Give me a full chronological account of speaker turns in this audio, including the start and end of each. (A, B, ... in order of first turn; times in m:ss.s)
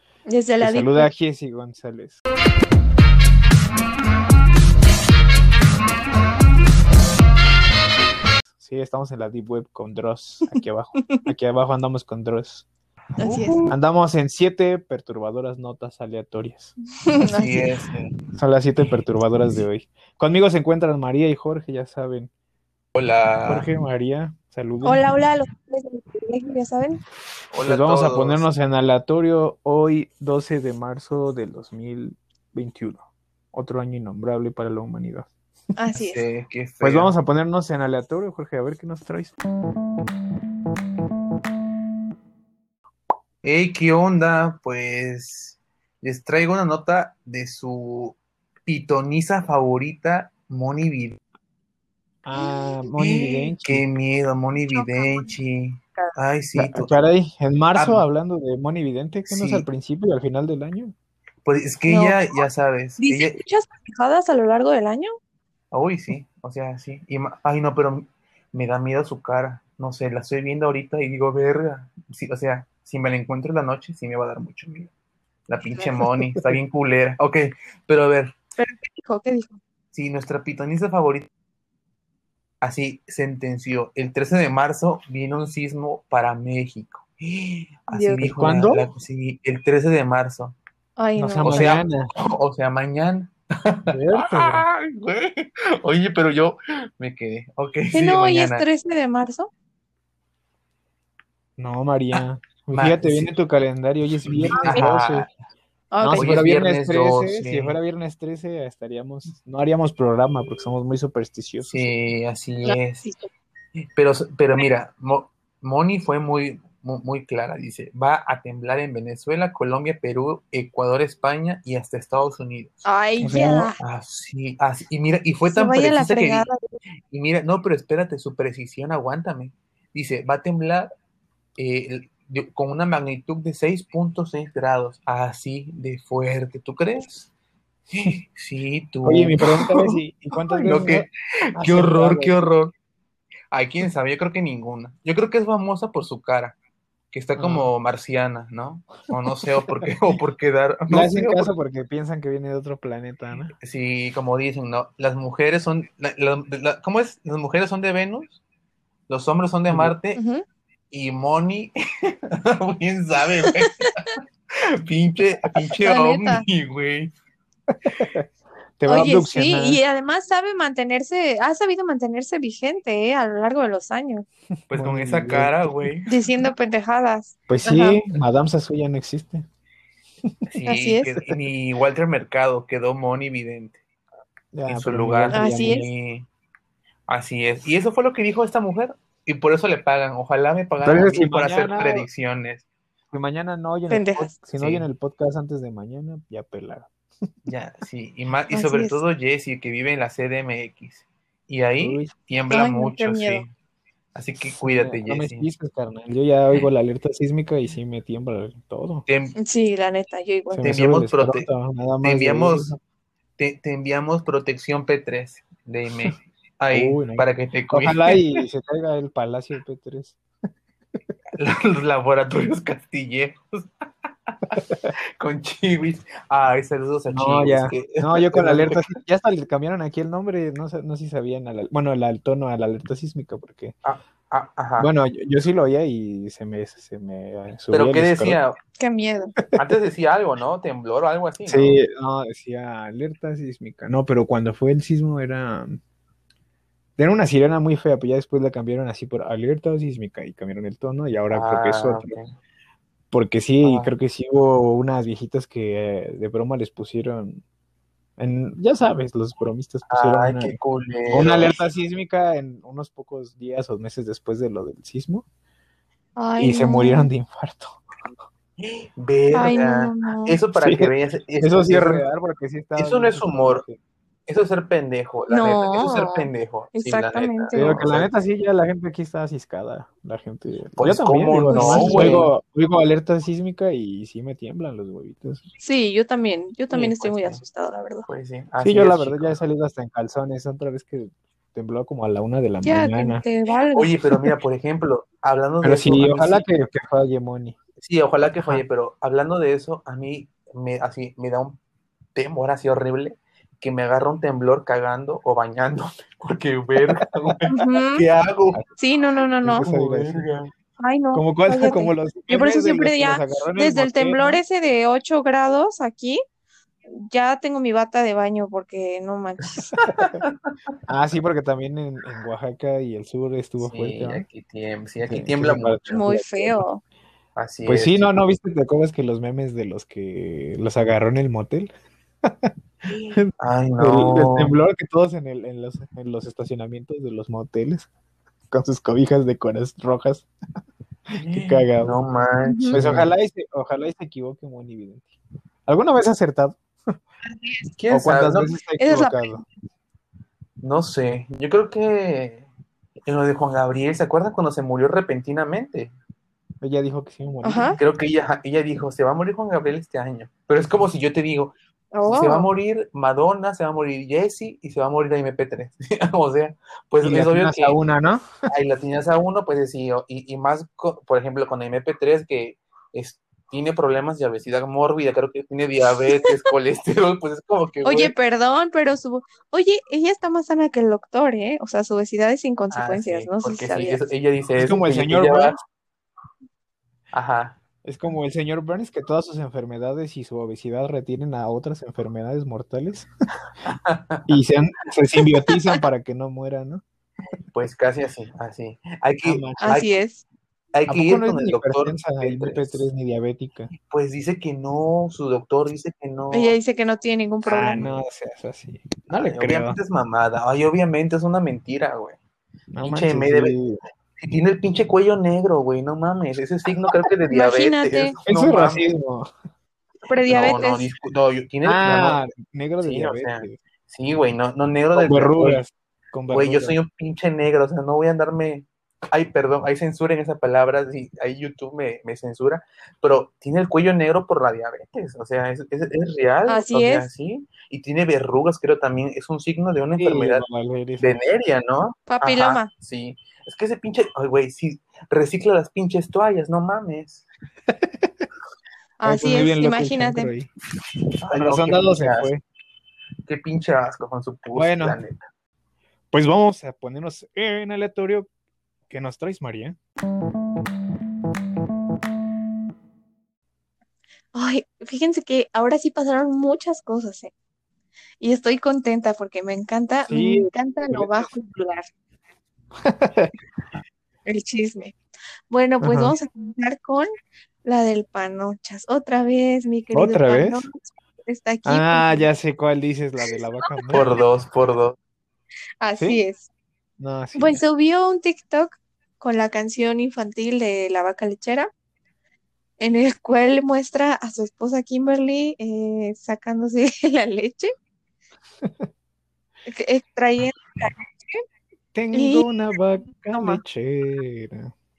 0:00.3-0:01.1 A
0:00.6-0:02.2 B
0:08.6-0:12.7 B
0:13.2-0:13.8 C
0:13.2-0:13.6 A
0:13.7-0:16.7 B
0:17.0-0:17.7 A
0:17.3-0:18.2 C
0:18.4-0:22.3 B
0:23.0-0:23.7 C
0:23.5-0:25.0 B
0:24.8-0:27.0 A
0:27.5-0:28.4 C
0:27.6-0:35.3 B
0:35.8-0:36.2 A
0:35.9-0:37.1 C
0:36.8-0:39.4 B
0:43.4-0:51.2 C
0:52.2-0:53.9 B
0:53.0-0:57.0 C
0:54.7-0:55.3 A
0:56.6-1:00.9 B
0:57.8-0:58.0 C
0:59.3-0:59.6 C
1:01.4-1:03.4 C
1:01.9-1:02.4 A
1:03.0-1:05.1 A
1:05.7-1:14.9 C
1:15.5-1:18.4 C
1:18.6-1:19.6 A
1:19.9-1:21.3 C
1:22.6-1:30.6 C
1:27.9-1:28.3 A
1:28.2-1:28.9 B
1:31.0-1:31.7 A
1:31.2-1:32.1 B
1:31.4-1:38.6 C
1:33.9-1:34.7 B
1:37.9-1:39.5 A
1:41.6-1:45.3 B
1:42.1-1:43.3 C
1:44.2-1:45.3 C
1:44.6-1:44.8 A
1:45.9-1:46.4 A
1:46.0-1:51.9 B
1:46.2-1:47.8 C
1:51.6-1:53.1 C
1:52.6-1:53.3 A
1:54.0-2:02.8 C
2:02.9-2:03.8 A
2:03.2-2:03.7 B
2:03.8-2:06.5 C
2:05.5-2:06.6 A
2:07.1-2:10.9 C
2:11.6-2:17.3 C
2:17.9-2:20.0 C
2:19.1-2:21.1 B
2:20.5-2:22.7 C
2:21.6-2:22.4 B
2:23.5-2:26.6 C
2:27.1-2:31.5 C
2:27.4-2:27.7 B
2:30.9-2:33.5 B
2:33.6-2:38.4 C
2:39.1-2:40.2 C
2:39.7-2:40.0 B
2:40.2-2:40.4 A
2:40.9-2:47.1 C
2:43.4-2:44.0 A
2:45.8-2:46.4 A
2:47.7-2:48.3 B
2:48.8-2:49.8 B
2:48.9-2:54.2 A
2:54.7-2:55.9 B
2:54.7-2:56.1 C
2:56.1-2:58.0 A
2:57.5-2:59.5 B
3:00.5-3:03.8 C
3:00.7-3:01.1 A
3:04.5-3:05.9 B
3:04.7-3:06.3 C
3:05.3-3:05.9 A
3:07.1-3:12.6 C
3:10.8-3:12.1 B
3:13.1-3:16.9 B
3:13.9-3:14.3 A
3:14.6-3:14.9 C
3:17.5-3:23.5 C
3:18.5-3:19.0 A
3:21.8-3:22.1 B
3:22.5-3:23.4 A
3:24.2-3:25.5 C
3:24.4-3:29.1 B
3:29.1-3:29.4 C
3:29.4-3:30.7 A
3:30.5-3:32.8 B
3:30.6-3:31.5 C
3:32.0-3:32.7 C
3:33.4-3:38.4 C
3:36.7-3:40.2 B
3:41.4-3:44.6 C
3:44.5-3:44.9 B
3:45.2-3:48.9 C
3:47.1-3:53.8 B
3:53.8-3:54.9 C
3:54.8-3:58.4 B
3:57.7-3:58.6 C
3:58.8-3:59.4 A
3:59.6-4:01.8 C
4:01.5-4:05.8 B
4:07.0-4:12.2 B
4:11.3-4:12.3 C
4:13.1-4:17.4 B
4:13.6-4:13.9 C
4:18.2-4:20.6 B
4:19.9-4:21.6 C
4:21.1-4:25.2 B
4:26.2-4:27.1 A
4:26.4-4:27.8 B
4:28.6-4:32.1 C
4:29.3-4:30.4 A
4:30.6-4:33.8 B
4:32.8-4:33.6 C
4:34.3-4:38.1 C
4:35.3-4:37.8 A
4:37.5-4:45.4 B
4:40.8-4:42.3 C
4:41.5-4:42.3 A
4:45.6-4:48.1 A
4:46.7-4:47.4 C
4:48.1-4:49.4 C
4:48.6-4:53.2 B
4:52.6-4:53.9 A
4:53.7-4:56.4 C
4:55.6-4:57.6 B
4:57.8-5:01.6 C
5:02.2-5:08.6 C
5:07.0-5:07.4 B
5:07.5-5:08.1 A
5:08.8-5:09.7 A
5:09.4-5:10.3 B
5:09.5-5:10.5 C
5:10.8-5:16.2 A
5:11.1-5:14.4 B
5:16.9-5:19.8 A
5:19.8-5:20.1 B
5:19.8-5:20.5 C
5:20.9-5:24.3 B
5:23.6-5:25.8 C
5:25.0-5:26.6 B
5:25.9-5:26.8 A
5:27.4-5:28.1 C
5:27.7-5:31.7 B
5:32.2-5:32.5 B
5:32.9-5:34.5 C
5:33.1-5:37.9 B
5:38.5-5:40.3 B
5:41.1-5:42.0 B
5:41.2-5:43.1 C
5:42.4-5:42.8 A
5:42.7-5:45.1 B
5:45.7-5:46.6 B
5:47.2-5:47.7 A
5:47.8-5:48.5 C
5:47.9-5:49.4 B
5:48.8-5:49.3 A
5:50.6-5:52.5 C
5:53.0-5:55.9 C
5:56.6-5:57.8 B
5:57.4-5:57.8 A
5:57.8-6:01.5 C
6:01.9-6:02.5 A
6:02.1-6:07.8 C
6:07.0-6:08.4 B
6:08.5-6:18.1 C
6:16.0-6:16.4 A
6:17.8-6:24.0 A
6:22.7-6:25.6 C
6:24.6-6:25.6 B
6:27.1-6:27.6 C
6:27.8-6:33.1 B
6:33.6-6:34.2 C
6:34.3-6:36.8 B
6:37.5-6:40.0 C
6:39.2-6:39.8 B
6:39.6-6:40.2 A
6:40.7-6:42.9 C
6:40.9-6:43.7 B
6:43.8-6:46.6 C
6:46.3-6:47.8 A
6:47.5-6:49.8 B
6:47.7-6:48.0 C
6:49.1-6:52.2 C
6:52.7-6:53.8 B
6:52.8-6:53.6 C
6:54.2-6:58.8 C
6:57.3-6:58.1 A
6:58.3-6:59.3 B
7:00.1-7:00.9 A
7:00.3-7:00.6 B
7:00.3-7:02.2 C
7:01.6-7:03.6 B
7:02.8-7:05.6 C
7:05.0-7:06.8 B
7:06.3-7:20.5 C
7:16.5-7:17.1 A
7:20.0-7:21.2 B
7:21.0-7:27.3 C
7:22.1-7:22.7 A
7:27.7-7:28.3 B
7:29.0-7:30.3 A
7:29.0-7:30.5 B
7:31.2-7:32.3 C
7:31.3-7:32.4 B
7:33.3-7:35.2 C
7:34.5-7:35.0 B
7:36.1-7:38.3 B
7:38.9-7:39.8 B
7:44.4-7:47.3 A
7:48.2-7:51.9 A
7:50.1-7:51.3 B
7:52.8-7:53.4 B
7:54.3-7:55.0 A
7:55.5-7:57.1 A
7:55.8-7:56.2 B
7:57.6-8:02.3 A
7:59.9-8:00.6 B
8:01.7-8:04.2 B
8:03.2-8:03.7 A
8:03.9-8:05.0 C
8:05.8-8:06.5 A
8:07.0-8:07.6 B
8:07.4-8:11.7 A
8:12.8-8:17.7 A
8:18.6-8:18.9 B
8:19.7-8:21.4 A
8:21.9-8:24.7 B
8:22.1-8:22.5 A
8:23.2-8:23.6 A